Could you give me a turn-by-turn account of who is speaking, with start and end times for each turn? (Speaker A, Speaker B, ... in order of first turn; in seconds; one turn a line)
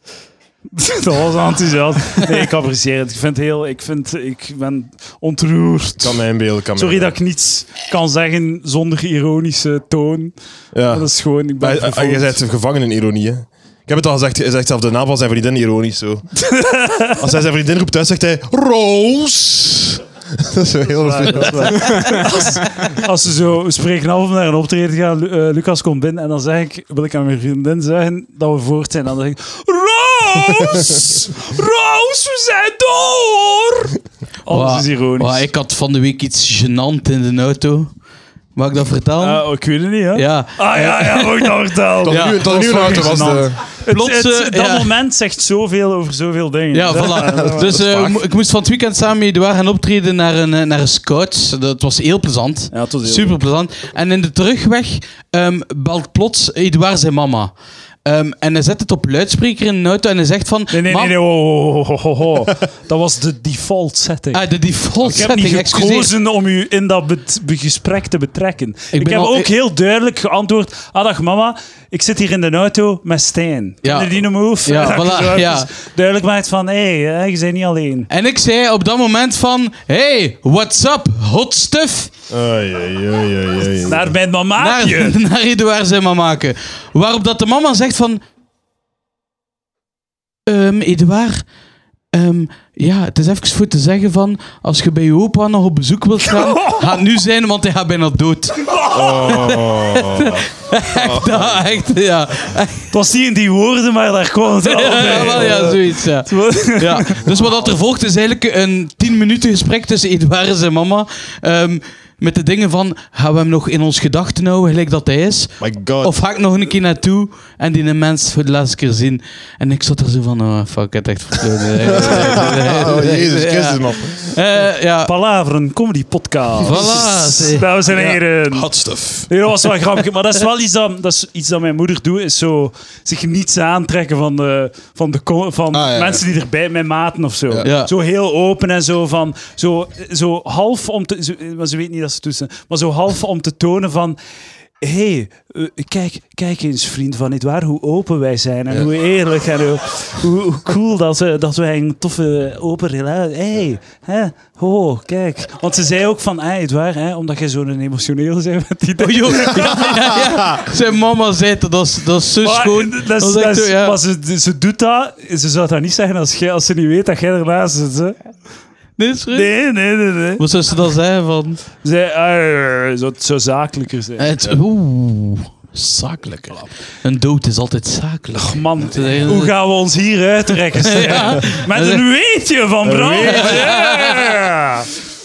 Speaker A: 0.8-6.2
Speaker B: 6.0-7.2
Speaker A: 6.8-10.3
Speaker B: 10.7-16.4
Speaker A: 10.9-12.4
Speaker A: 16.5-17.1
Speaker B: 17.2-22.1
Speaker A: 21.0-33.9
Speaker A: 34.5-35.5
Speaker C: 34.5-38.0
Speaker C: 38.5-41.5
Speaker A: 39.2-47.7
Speaker B: 42.0-43.6
Speaker C: 42.1-42.4
Speaker C: 43.9-44.9
Speaker C: 46.7-57.5
Speaker B: 47.3-48.2
Speaker A: 52.7-53.4
Speaker C: 58.0-61.2
Speaker A: 60.7-64.4
Speaker C: 64.3-66.1
Speaker A: 65.0-78.1
Speaker C: 68.9-69.5
Speaker C: 73.8-75.7
Speaker C: 78.1-82.1
Speaker B: 82.3-84.1
Speaker A: 83.9-85.2
Speaker C: 84.6-88.2
Speaker C: 90.5-91.5
Speaker C: 92.1-98.7
Speaker B: 98.9-101.6
Speaker C: 99.3-102.9
Speaker A: 102.9-107.2
Speaker C: 104.6-125.1
Speaker B: 115.6-116.1
Speaker B: 121.9-124.3
Speaker A: 125.0-128.7
Speaker C: 126.6-127.7
Speaker B: 126.7-127.0
Speaker B: 127.9-129.3
Speaker A: 129.3-144.2
Speaker B: 135.7-136.2
Speaker C: 137.6-137.9
Speaker A: 144.8-159.9
Speaker C: 159.0-164.0
Speaker A: 162.4-168.2
Speaker C: 169.0-169.7
Speaker A: 169.3-170.4
Speaker C: 170.4-171.6
Speaker A: 171.8-174.3
Speaker C: 174.2-179.6
Speaker A: 178.3-184.9
Speaker C: 180.9-182.0
Speaker B: 182.8-183.6
Speaker C: 183.2-184.0